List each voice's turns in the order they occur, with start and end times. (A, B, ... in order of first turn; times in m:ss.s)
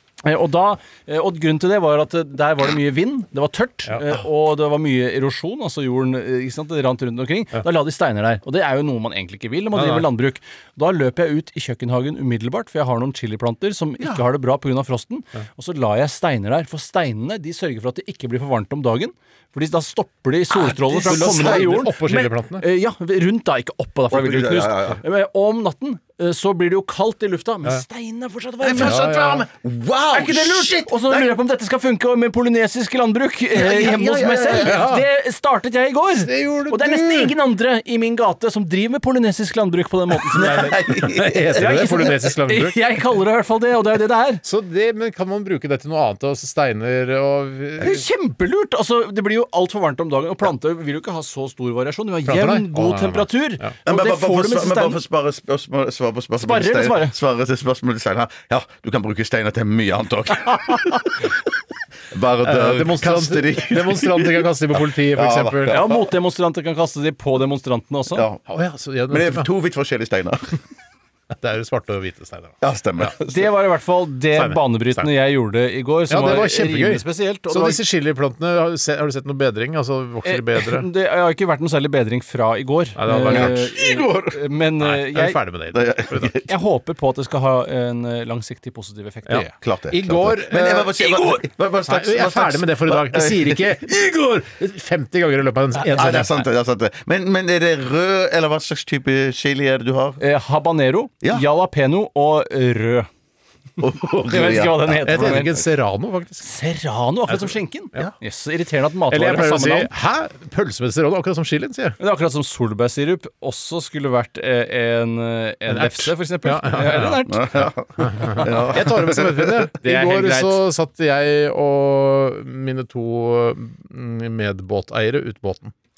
0:00.2-0:29.1 A
0:09.7-0:10.1 B
0:20.6-0:21.8 C
0:21.0-0:22.6 B
0:24.1-0:25.0 C
0:28.6-0:31.3 C
0:28.8-0:29.5 B
0:30.1-0:41.0 A
0:33.5-0:34.8 C
0:34.6-0:35.0 B
0:36.1-0:37.3 B
0:40.3-0:41.7 C
0:40.4-0:42.8 B
0:41.5-0:44.4 A
0:44.4-0:48.0 B
0:47.8-0:55.0 A
0:52.2-0:53.7 B
0:53.8-1:01.2 C
0:56.4-0:57.1 A
1:02.1-1:06.0 C
1:02.4-1:05.9 B
1:05.7-1:08.2 A
1:08.1-1:08.4 C
1:08.5-1:09.5 B
1:09.1-1:10.5 C
1:11.3-1:13.1 B
1:12.6-1:13.5 C
1:13.2-1:17.8 A
1:14.3-1:15.1 B
1:16.1-1:20.9 B
1:20.2-1:25.4 A
1:23.0-1:23.7 B
1:23.3-1:24.4 C
1:24.8-1:26.3 B
1:25.7-1:26.5 C
1:26.4-1:29.5 A
1:29.2-1:36.4 B
1:29.6-1:33.8 C
1:35.9-1:40.2 C
1:40.2-1:43.1 A
1:43.8-1:45.5 C
1:44.2-1:45.5 A
1:45.0-1:46.5 B
1:46.4-1:49.9 A
1:47.3-1:48.1 B
1:49.1-1:52.0 B
1:52.0-1:57.7 A
1:55.7-2:05.7 B
1:57.2-1:59.6 C
1:58.4-1:58.6 A
1:59.8-2:00.6 A